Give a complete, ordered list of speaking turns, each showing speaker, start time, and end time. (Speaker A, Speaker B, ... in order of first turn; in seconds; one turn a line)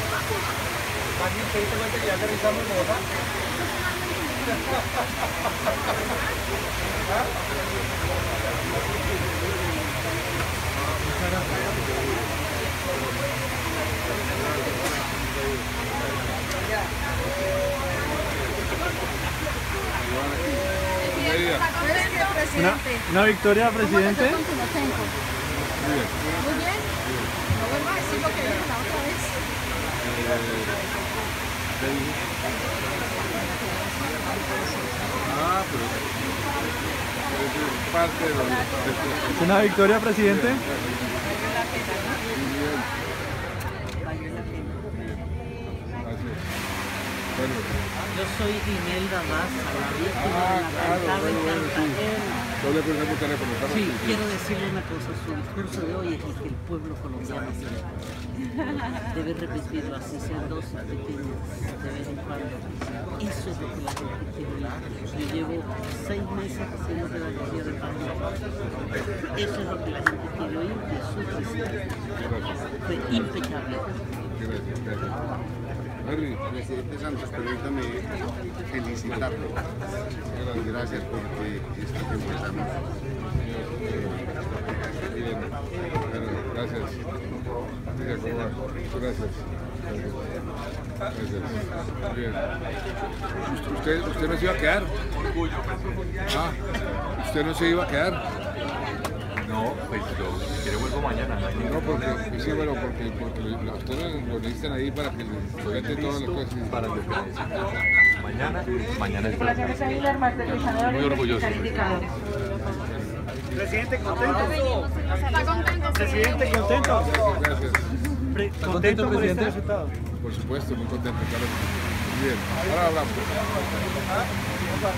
Speaker A: 1.2-3.0
Speaker B: 14.4-15.1
Speaker B: 19.9-21.7
Speaker C: 21.0-23.1
Speaker D: 22.5-24.4
Speaker C: 23.7-25.1
Speaker B: 25.8-26.2
Speaker C: 26.4-26.8
Speaker B: 27.0-27.4
Speaker C: 27.5-29.4
Speaker B: 30.0-30.8
Speaker B: 31.7-32.2
Speaker C: 34.1-34.9
Speaker B: 35.2-36.2
Speaker B: 37.3-39.6
Speaker D: 39.3-40.6
Speaker B: 40.1-41.4
Speaker B: 42.3-42.9
Speaker E: 44.0-44.8
Speaker B: 44.8-45.3
Speaker B: 46.0-46.4
Speaker B: 47.3-47.7
Speaker E: 48.1-52.4
Speaker B: 50.1-52.0
Speaker B: 52.6-54.3
Speaker E: 53.7-58.0
Speaker E: 58.9-68.4
Speaker E: 69.0-71.8
Speaker B: 72.2-73.3
Speaker E: 72.8-73.9
Speaker B: 74.3-75.2
Speaker B: 76.0-76.5
Speaker F: 76.5-78.1
Speaker F: 78.7-79.5
Speaker B: 80.2-81.2
Speaker F: 80.9-82.8
Speaker B: 83.2-84.3
Speaker B: 84.9-87.0
Speaker B: 87.9-90.3
Speaker B: 91.1-92.4
Speaker B: 93.5-95.0
Speaker B: 96.2-96.6
Speaker B: 97.1-98.2
Speaker G: 99.3-102.5
Speaker B: 101.6-106.8
Speaker E: 105.6-106.4
Speaker G: 106.7-112.0
Speaker C: 110.0-111.0
Speaker B: 110.9-113.7
Speaker A: 113.5-114.9
Speaker C: 114.1-116.7
Speaker A: 115.9-117.2
Speaker B: 116.6-117.9
Speaker A: 118.3-119.9
Speaker D: 118.3-119.5
Speaker G: 118.6-119.5
Speaker B: 120.1-123.7